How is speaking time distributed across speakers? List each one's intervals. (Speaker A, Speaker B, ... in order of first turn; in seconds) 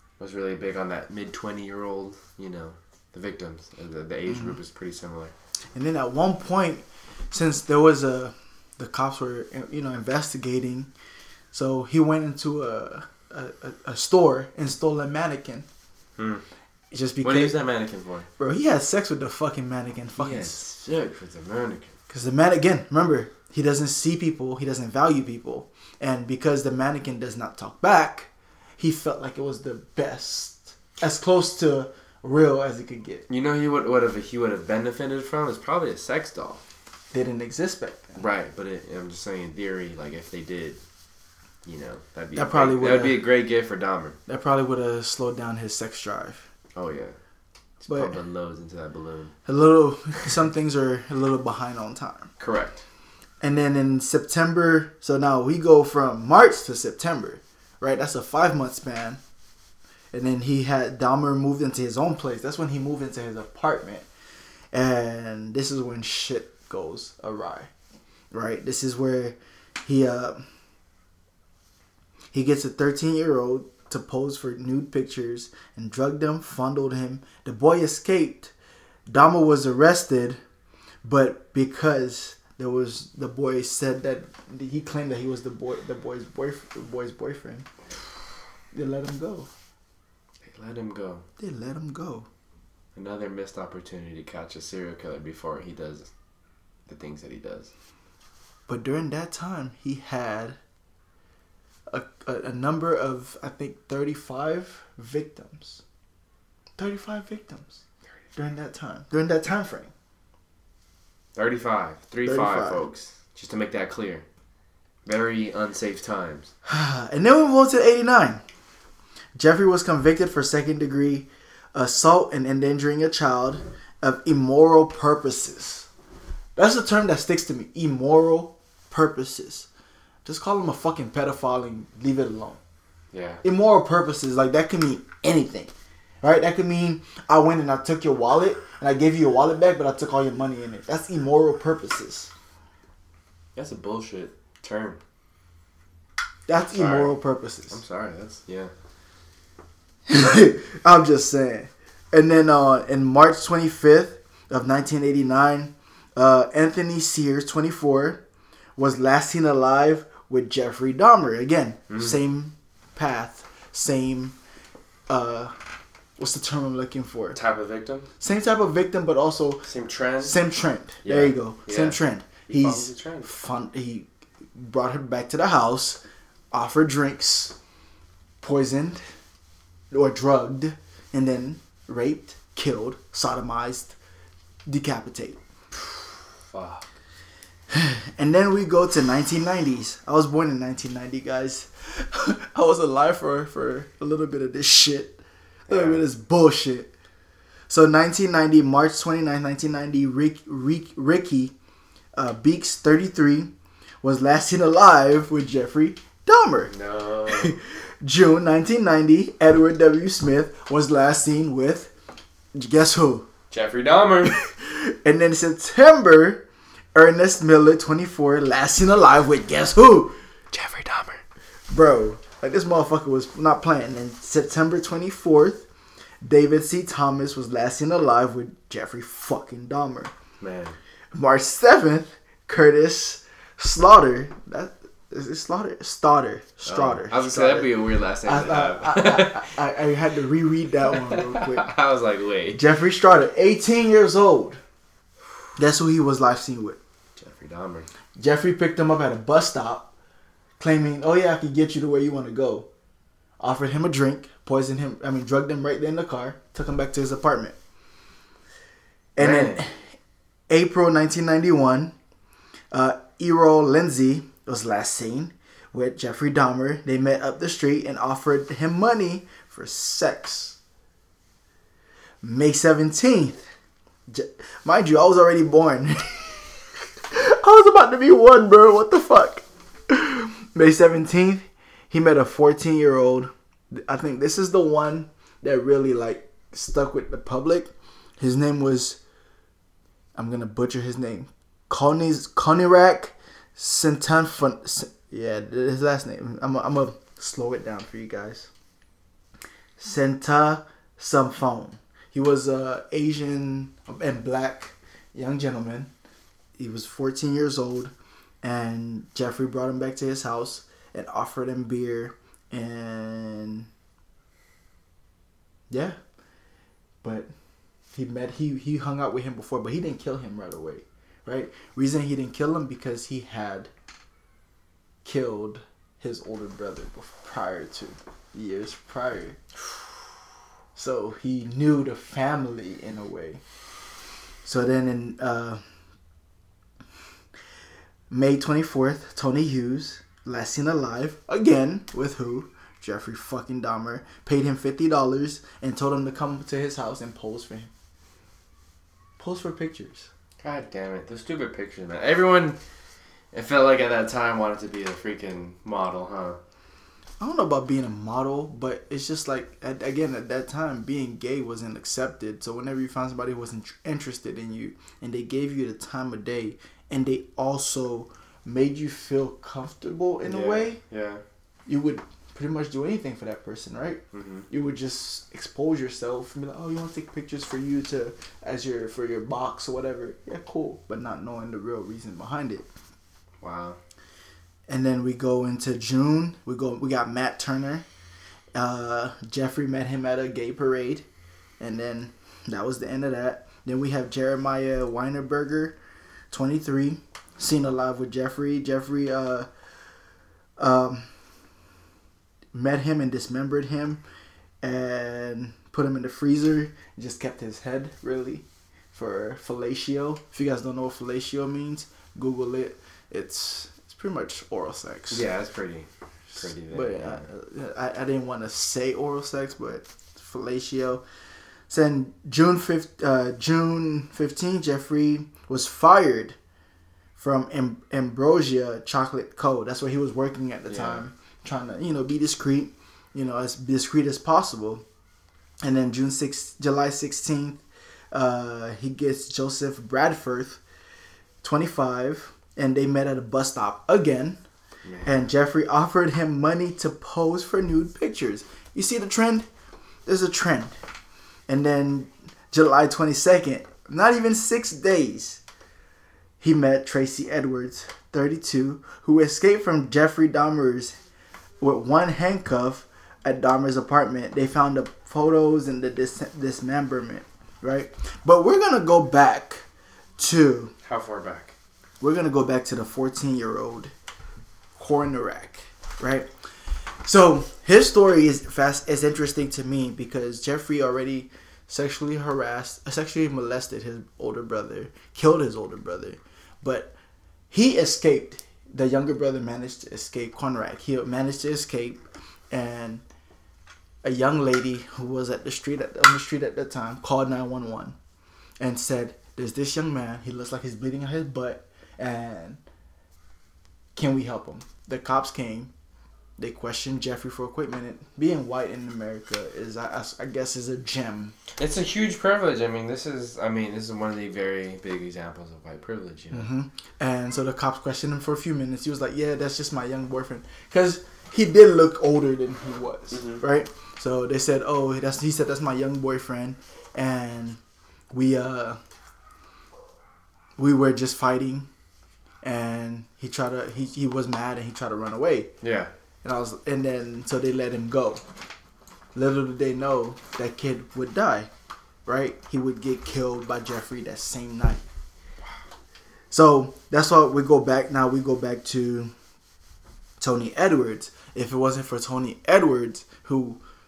Speaker A: 0.2-5.3, 16.2-16.4, 17.2-18.3, 20.2-21.9, 33.3-36.6, 38.2-40.8, 41.6-44.2, 46.8-47.2, 47.8-49.4, 52.4-52.9, 90.4-91.2, 93.0-96.1, 96.9-97.7, 111.3-114.2, 115.1-116.5, 133.1-133.4, 143.6-145.0, 146.8-147.2, 147.7-148.7, 161.9-162.2, 167.3-168.1, 169.6-170.4, 171.0-172.0, 172.5-173.3, 185.7-186.9, 195.7-196.0, 206.7-207.6, 213.5-214.3, 220.5-221.2, 230.4-230.8, 236.7-239.5, 240.9-242.6, 247.2-247.9, 259.2-259.6, 350.4-352.6, 353.3-356.4, 370.2-371.2, 374.1-374.5, 383.4-383.8, 415.1-417.2, 430.7-431.0, 444.9-445.1, 470.9-471.6, 511.6-516.5, 523.1-523.4, 535.6-535.9
Speaker B: 4.3-4.6, 5.8-10.9, 11.5-15.7, 16.9-17.6, 18.4-20.6, 22.1-33.3, 37.1-38.2, 42.3-43.2, 44.3-46.5, 47.9-48.2, 49.5-52.3, 53.4-59.2, 60.1-64.1, 64.7-67.7, 68.3-70.4, 72.3-78.5, 79.1-80.4, 81.0-87.7, 88.7-89.5, 91.4-92.3, 98.7-100.6, 101.9-105.8, 106.8-107.8, 108.4-109.9, 112.2-112.8, 116.7-118.4, 119.3-125.9, 126.6-129.7, 130.2-132.6, 133.4-142.3, 146.5-147.8, 150.1-158.2, 158.8-164.3, 165.1-165.6, 166.2-167.4, 168.2-169.7, 170.2-176.0, 176.5-177.6, 178.4-179.0, 179.9-184.0, 184.7-185.4, 187.7-196.9, 197.7-201.6, 202.2-203.5, 204.0-206.7, 207.3-211.9, 212.6-213.3, 214.2-220.2, 221.7-225.7, 226.2-230.1, 231.1-237.7, 238.2-241.7, 242.5-244.6, 245.6-246.8, 248.2-249.9, 250.6-252.7, 253.4-257.6, 259.2-259.9, 260.5-261.9, 262.7-270.6, 272.2-273.4, 274.1-276.5, 277.1-289.0, 290.2-298.5, 299.8-305.9, 306.6-313.7, 315.7-316.0, 317.0-317.3, 317.9-323.7, 325.1-329.4, 330.8-333.4, 334.4-335.6, 338.1-347.7, 349.2-350.1, 357.2-370.8, 371.7-382.7, 384.7-387.9, 388.6-391.1, 391.6-395.8, 396.3-399.5, 400.6-401.1, 402.5-404.0, 404.6-415.2, 416.4-421.0, 421.7-426.4, 427.2-434.8, 435.6-440.6, 441.4-444.4, 445.1-449.5, 450.1-450.8, 451.5-455.4, 456.4-460.9, 461.6-469.7, 470.2-470.7, 472.0-473.9, 474.8-476.3, 477.1-486.9, 487.5-493.0, 494.0-498.0, 498.6-502.6, 503.9-505.7, 506.4-511.4, 516.3-527.6, 528.1-528.8, 530.6-531.7, 532.4-535.5, 536.2-538.2, 539.1-541.5, 542.1-544.8, 546.3-549.1, 550.2-553.6